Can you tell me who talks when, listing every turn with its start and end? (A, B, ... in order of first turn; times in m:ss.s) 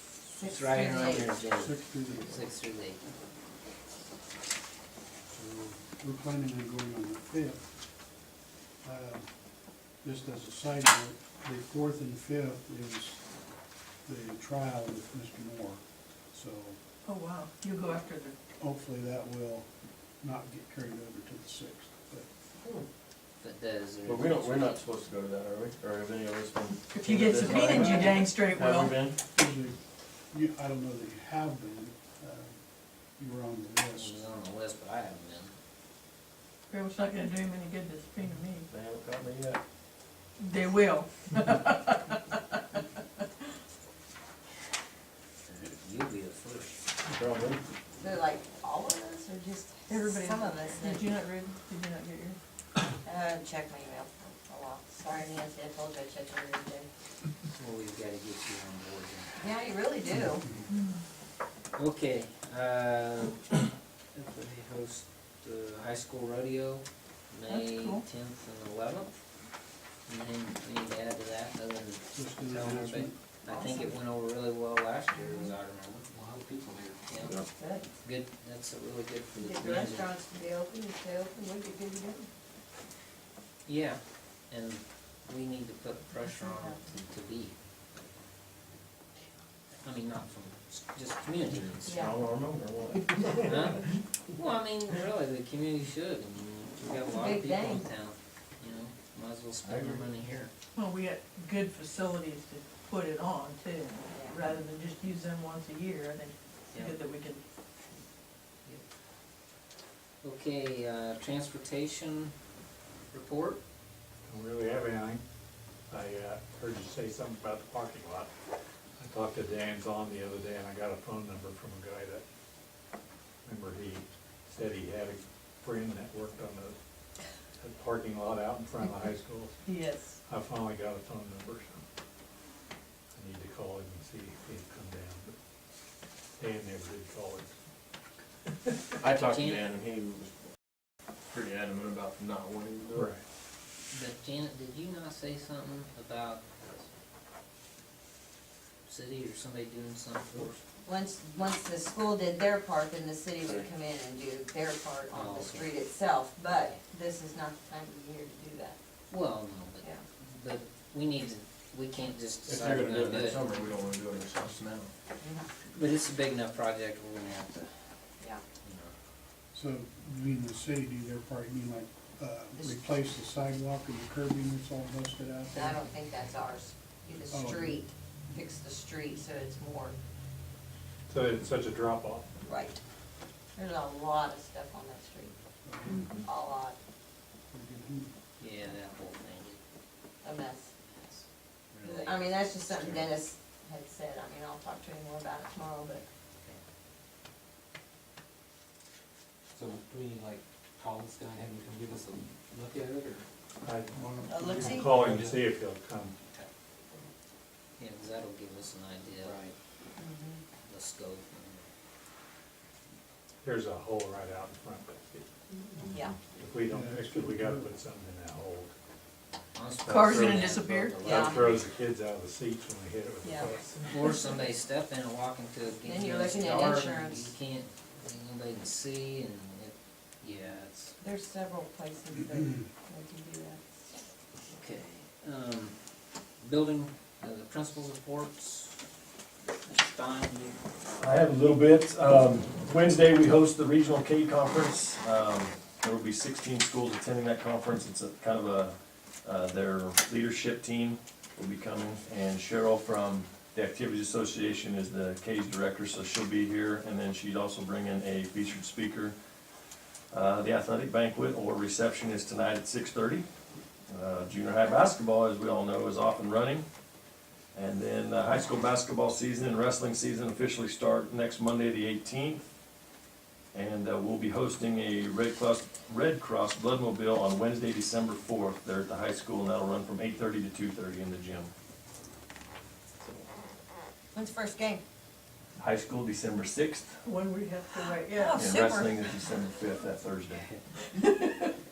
0:00.3-0:01.3 A
0:00.4-0:03.0 B
0:01.5-0:02.5 C
0:05.3-0:07.6 C
0:08.8-0:09.3 C
0:10.0-0:13.2 C
0:14.0-0:15.8 C
0:16.3-0:16.8 C
0:17.0-0:18.3 D
0:18.6-0:19.7 C
0:20.2-0:22.3 C
0:22.6-0:22.8 E
0:23.4-0:24.8 B
0:24.0-0:29.2 E
0:26.9-0:28.9 D
0:29.3-0:29.8 C
0:30.3-0:32.6 C
0:33.2-0:34.2 C
0:33.9-0:35.5 B
0:36.7-0:38.6 D
0:38.7-0:39.6 E
0:40.4-0:43.2 D
0:45.5-0:46.8 B
0:47.0-0:47.6 E
0:48.0-0:51.1 A
0:49.9-0:52.4 D
0:53.0-0:56.9 A
0:57.5-0:59.5 B
0:59.4-1:00.4 A
1:00.7-1:01.0 D
1:01.7-1:09.1 B
1:07.5-1:08.0 D
1:10.1-1:16.1 B
1:12.1-1:13.2 C
1:13.5-1:13.9 A
1:15.1-1:15.5 A
1:16.1-1:17.0 F
1:17.1-1:17.4 B
1:17.5-1:17.8 A
1:18.0-1:20.1 B
1:19.4-1:22.3 A
1:23.6-1:27.5 B
1:29.8-1:32.0 B
1:31.6-1:33.6 E
1:31.8-1:32.2 A
1:33.4-1:40.5 B
1:37.1-1:37.8 A
1:39.6-1:40.1 E
1:40.7-1:47.4 D
1:44.1-1:44.4 A
1:50.2-1:52.3 B
1:53.1-1:53.6 B
1:54.2-1:55.2 G
1:55.9-1:58.3 G
1:59.0-2:02.2 G
2:03.4-2:06.7 G
2:07.6-2:09.6 G
2:09.6-2:10.2 D
2:10.2-2:11.8 G
2:13.1-2:15.3 G
2:16.4-2:17.5 G
2:18.5-2:19.0 G
2:19.0-2:20.3 E
2:19.2-2:19.6 B
2:21.3-2:23.1 E
2:22.9-2:23.2 G
2:23.9-2:26.9 B
2:28.9-2:30.6 B
2:30.8-2:38.8 A
2:35.1-2:35.7 B
2:36.5-2:36.8 B
2:39.1-2:43.4 B
2:42.5-2:44.9 E
2:45.2-2:45.5 A
2:45.7-2:47.7 B
2:48.6-2:48.9 B
2:49.5-2:55.8 C
2:55.5-2:59.9 A
2:57.3-2:57.8 C
3:01.1-3:02.3 G
3:02.4-3:02.8 A
3:03.6-3:05.3 A
3:05.6-3:06.0 C
3:06.2-3:06.8 A
3:07.5-3:08.1 C
3:08.4-3:09.6 B
3:10.2-3:10.7 A
3:10.9-3:12.3 B
3:11.8-3:16.0 A
3:19.5-3:23.2 F
3:23.6-3:26.2 G
3:23.9-3:24.4 C
3:24.3-3:25.0 A
3:27.8-3:29.4 B
3:29.2-3:29.5 F
3:30.0-3:30.4 A
3:30.6-3:31.7 B
3:33.4-3:35.3 G
3:35.8-3:36.2 A
3:36.3-3:38.7 G
3:36.6-3:37.8 C
3:39.5-3:41.6 B
3:39.8-3:43.9 G
3:39.9-3:41.0 D
3:41.0-3:41.6 A
3:43.2-3:43.5 A
3:43.8-3:50.9 B
3:45.8-3:47.3 A
3:51.0-3:53.6 A
3:54.5-3:55.8 B
3:56.4-3:58.8 B
3:59.6-4:00.6 B
4:01.0-4:19.1 H
4:20.1-4:23.3 H
4:23.9-4:26.6 H
4:27.5-4:32.5 H
4:33.5-4:41.5 H
4:44.1-4:44.8 A
4:45.6-4:47.0 H
4:47.0-4:48.4 D
4:47.8-4:49.0 A
4:48.3-4:50.4 H
4:50.9-4:51.6 D